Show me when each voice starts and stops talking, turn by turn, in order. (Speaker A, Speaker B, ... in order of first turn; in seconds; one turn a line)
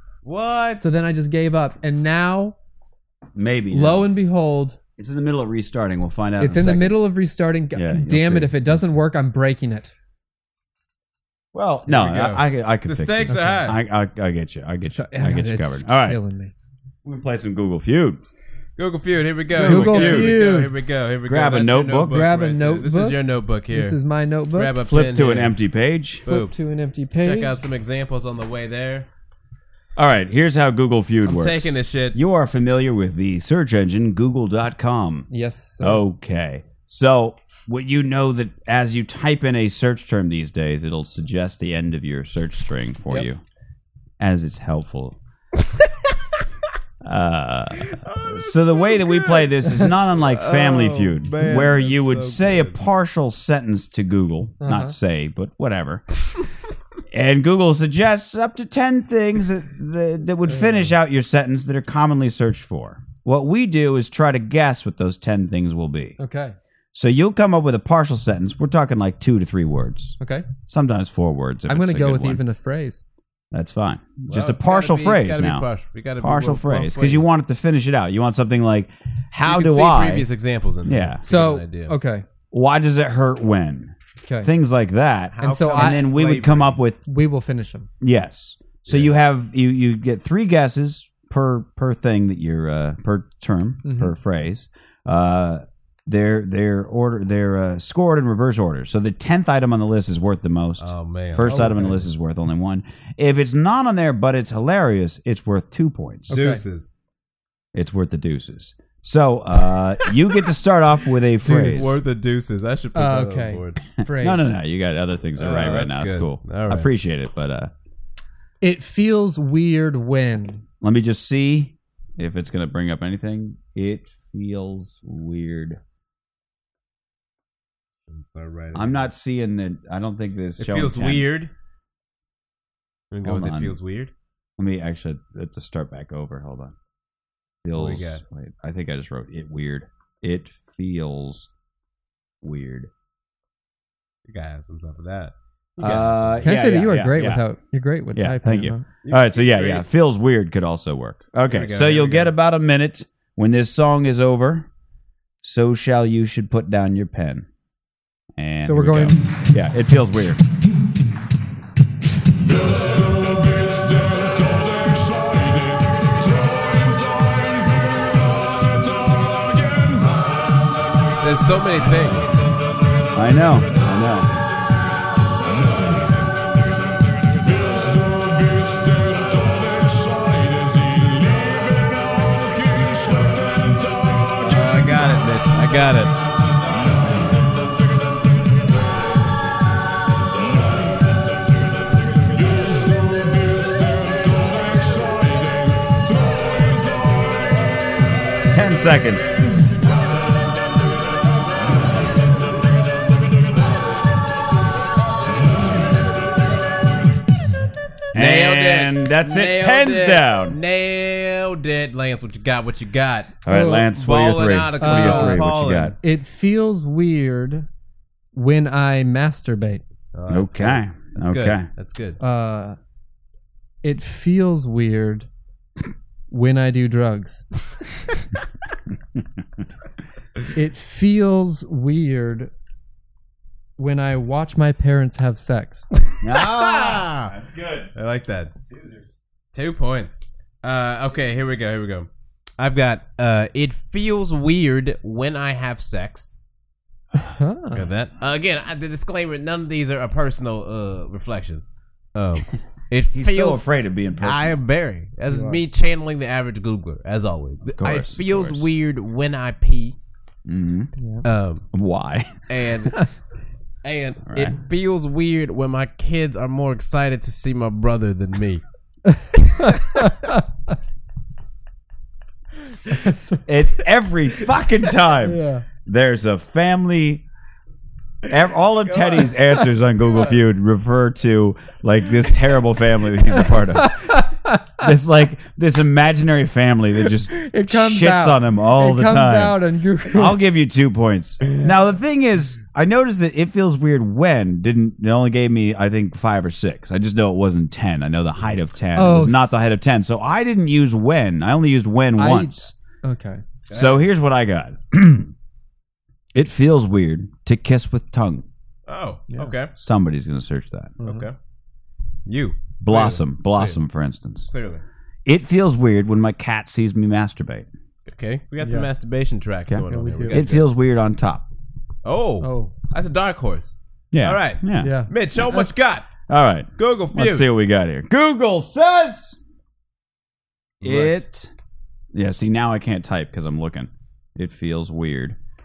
Speaker A: 0.2-0.9
Speaker B: 0.8-2.6
Speaker C: 3.4-4.1
Speaker B: 3.7-4.8
Speaker C: 5.0-7.0
Speaker B: 6.4-9.9
Speaker C: 7.8-9.0
Speaker C: 11.5-16.2
Speaker A: 11.9-13.8
Speaker B: 13.3-13.7
Speaker B: 14.9-16.5
Speaker C: 17.1-18.2
Speaker A: 18.8-24.0
Speaker C: 19.5-20.4
Speaker B: 19.6-20.7
Speaker C: 21.3-22.3
Speaker B: 22.1-23.2
Speaker B: 23.7-24.8
Speaker A: 24.5-25.6
Speaker C: 24.8-26.2
Speaker A: 26.2-26.5
Speaker B: 26.3-27.6
Speaker A: 27.2-29.1
Speaker C: 30.0-35.3
Speaker A: 31.2-32.2
Speaker B: 35.3-36.0
Speaker C: 35.8-43.4
Speaker C: 44.2-45.2
Speaker C: 47.0-56.0
Speaker A: 47.9-52.8
Speaker B: 54.6-55.0
Speaker C: 57.1-66.2
Speaker B: 66.2-66.5
Speaker C: 66.9-72.4
Speaker B: 70.2-70.5
Speaker B: 71.7-73.0
Speaker C: 73.5-75.7
Speaker A: 74.3-77.4
Speaker C: 76.2-80.3
Speaker A: 79.5-82.0
Speaker C: 80.8-81.2
Speaker B: 81.2-82.2
Speaker C: 82.5-87.0
Speaker B: 84.2-84.5
Speaker A: 85.3-86.8
Speaker B: 85.4-86.1
Speaker B: 87.1-87.9
Speaker C: 88.0-106.4
Speaker A: 88.9-89.1
Speaker B: 93.8-94.1
Speaker A: 100.8-101.9
Speaker B: 101.5-102.0
Speaker B: 106.3-106.6
Speaker A: 106.3-106.9
Speaker C: 107.7-112.0
Speaker B: 111.4-111.9
Speaker A: 111.5-113.8
Speaker B: 113.0-114.5
Speaker C: 114.0-117.7
Speaker A: 115.4-116.9
Speaker B: 118.6-120.6
Speaker C: 120.8-125.8
Speaker A: 128.1-129.1
Speaker C: 128.7-131.3
Speaker A: 130.6-131.5
Speaker A: 133.1-134.1
Speaker C: 133.2-133.8
Speaker C: 134.6-136.8
Speaker C: 137.7-141.5
Speaker A: 137.7-138.2
Speaker C: 142.4-142.9
Speaker A: 144.3-146.6
Speaker C: 145.8-147.4
Speaker B: 146.4-148.8
Speaker C: 148.1-154.7
Speaker A: 149.0-149.8
Speaker A: 151.5-152.3
Speaker C: 155.4-157.5
Speaker C: 158.4-160.4
Speaker B: 158.6-159.2
Speaker A: 171.2-172.3
Speaker C: 173.1-174.3
Speaker A: 184.4-186.2
Speaker C: 198.5-199.4
Speaker C: 208.1-210.6
Speaker A: 208.1-215.9
Speaker C: 213.4-215.9
Speaker B: 213.5-213.9
Speaker B: 214.8-215.5
Speaker B: 216.0-217.7
Speaker B: 218.3-219.8
Speaker A: 220.1-222.2
Speaker C: 220.3-221.7
Speaker B: 222.2-222.8
Speaker B: 223.8-225.3
Speaker B: 226.3-227.4
Speaker B: 230.5-232.5
Speaker B: 233.8-235.9
Speaker C: 236.2-237.9
Speaker A: 236.3-237.3
Speaker A: 237.9-238.5
Speaker C: 238.7-239.1
Speaker A: 239.5-246.4
Speaker B: 247.3-247.8
Speaker A: 247.7-251.6
Speaker A: 252.2-260.0
Speaker C: 253.1-254.6
Speaker B: 255.3-255.6
Speaker C: 257.8-258.6
Speaker C: 260.5-260.9
Speaker B: 261.0-261.2
Speaker A: 261.2-261.7
Speaker C: 261.7-262.4
Speaker A: 262.5-263.1
Speaker A: 263.8-268.6
Speaker C: 264.3-264.6
Speaker B: 269.1-270.4
Speaker A: 269.7-270.0
Speaker B: 272.9-273.4
Speaker C: 273.5-277.2
Speaker B: 275.2-275.6
Speaker C: 278.3-284.2
Speaker A: 279.0-279.3
Speaker B: 283.8-284.9
Speaker C: 284.8-302.7
Speaker B: 287.3-290.4
Speaker B: 299.0-299.6
Speaker B: 302.2-303.4
Speaker A: 303.7-304.1
Speaker C: 303.7-305.3
Speaker C: 306.3-308.4
Speaker A: 308.9-309.7
Speaker C: 309.8-311.0
Speaker B: 311.0-311.3
Speaker A: 311.0-311.3
Speaker A: 312.3-313.8
Speaker C: 312.8-314.5
Speaker A: 314.5-314.8
Speaker C: 315.3-317.7
Speaker A: 318.1-320.7
Speaker B: 318.6-318.9
Speaker C: 319.7-321.5
Speaker B: 319.9-320.4
Speaker A: 322.1-326.1
Speaker B: 322.4-322.7
Speaker C: 324.1-325.0
Speaker B: 324.8-325.7
Speaker C: 326.3-329.4
Speaker A: 326.8-327.5
Speaker A: 330.8-331.2
Speaker C: 330.8-331.5
Speaker C: 332.1-335.4